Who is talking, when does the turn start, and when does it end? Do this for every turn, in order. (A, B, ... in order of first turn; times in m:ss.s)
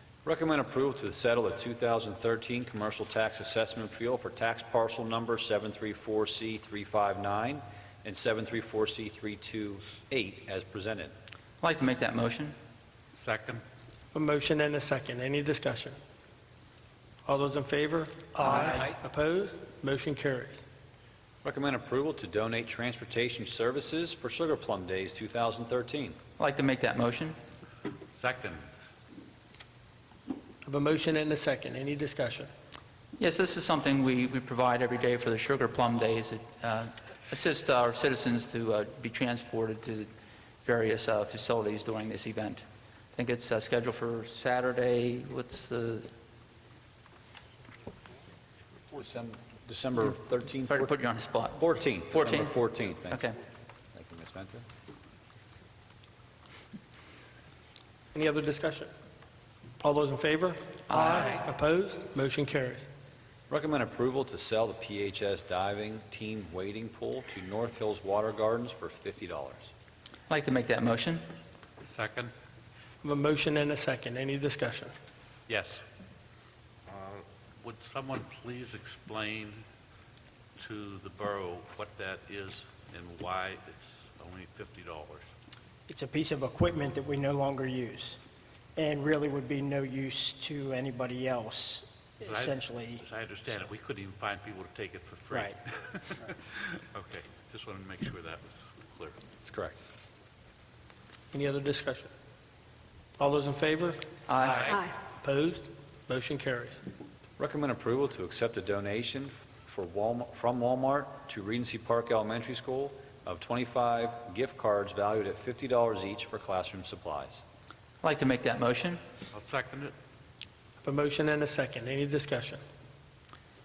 0:00.2-0:11.1 A
0:11.6-0:12.5 B
0:13.1-0:13.6 C
0:14.1-0:16.0 D
0:17.2-0:20.6 D
0:21.4-0:26.2 A
0:26.4-0:27.3 B
0:28.1-0:28.6 C
0:30.6-0:32.5 D
0:33.2-0:40.1 B
0:40.6-0:42.6 B
0:43.1-0:46.0 B
0:48.9-0:51.0 A
0:50.7-0:52.6 B
0:51.6-0:53.2 A
0:53.1-0:53.4 B
0:53.9-0:54.6 A
0:58.1-0:58.9 D
0:59.8-1:02.9 D
1:00.9-1:01.2 B
1:03.5-1:09.7 A
1:10.3-1:11.2 B
1:11.8-1:12.3 C
1:13.0-1:14.9 D
1:15.5-1:15.8 C
1:16.9-1:19.6 C
1:20.6-1:25.3 C
1:25.9-1:28.2 E
1:28.8-1:33.0 E
1:32.2-1:39.2 C
1:39.4-1:39.8 A
1:41.3-1:42.1 D
1:43.2-1:46.8 D
1:44.3-1:44.8 B
1:47.4-1:57.4 A
1:58.0-1:59.0 B
1:59.3-1:59.9 C
2:00.8-2:02.6 D